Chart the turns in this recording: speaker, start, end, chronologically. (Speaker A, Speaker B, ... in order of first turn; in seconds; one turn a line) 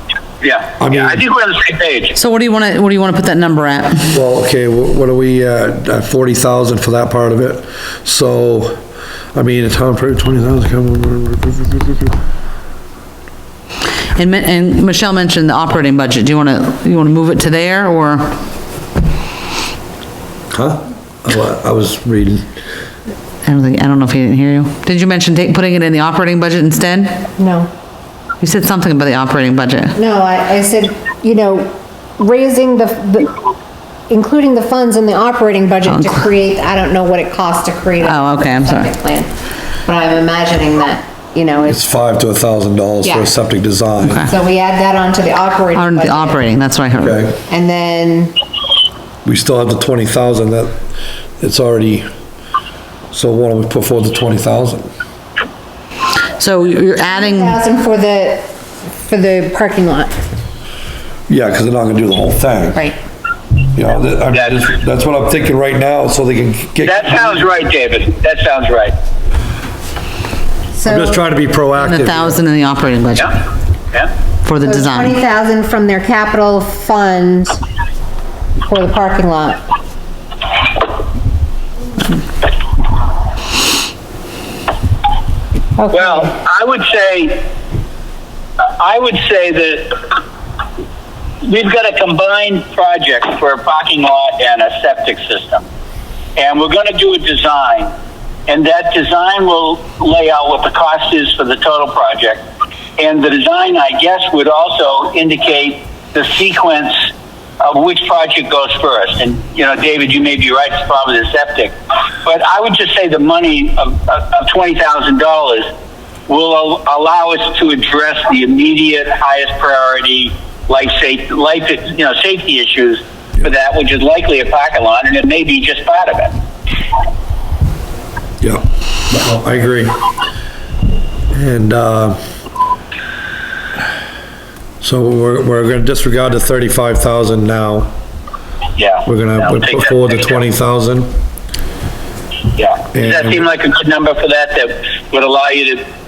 Speaker A: 0.4-2.2
Speaker B: 0.8-1.2
Speaker C: 2.1-4.1
Speaker B: 4.1-8.8
Speaker B: 9.3-12.0
Speaker C: 14.2-18.4
Speaker B: 20.5-22.5
Speaker C: 23.4-27.2
Speaker D: 27.4-27.7
Speaker C: 28.4-30.0
Speaker D: 29.9-33.3
Speaker D: 34.1-39.3
Speaker C: 35.9-36.2
Speaker C: 38.0-38.9
Speaker D: 39.8-41.8
Speaker B: 41.7-44.3
Speaker D: 43.0-43.3
Speaker C: 44.0-44.3
Speaker D: 44.2-46.4
Speaker C: 45.7-47.2
Speaker B: 47.0-47.4
Speaker D: 47.5-48.3
Speaker B: 49.2-50.8
Speaker B: 51.4-52.1
Speaker B: 53.1-54.9
Speaker C: 56.4-57.6
Speaker D: 57.0-58.5
Speaker D: 59.0-60.2
Speaker B: 61.3-62.9
Speaker B: 63.7-67.5
Speaker A: 66.8-68.9
Speaker D: 70.7-71.2
Speaker B: 70.8-72.4
Speaker C: 71.8-73.3
Speaker C: 74.4-75.2
Speaker D: 74.6-77.6
Speaker D: 78.6-79.6
Speaker D: 85.8-86.3
Speaker A: 85.9-87.4
Speaker A: 88.8-90.0
Speaker A: 91.4-95.7
Speaker A: 96.4-97.9
Speaker A: 98.5-102.4
Speaker A: 103.0-107.1
Speaker A: 107.6-115.7
Speaker A: 116.3-126.3
Speaker B: 128.4-130.0
Speaker B: 131.3-132.2
Speaker B: 134.8-137.9
Speaker A: 138.8-140.4
Speaker B: 139.1-141.1
Speaker A: 142.6-145.8
Speaker B: 142.9-143.4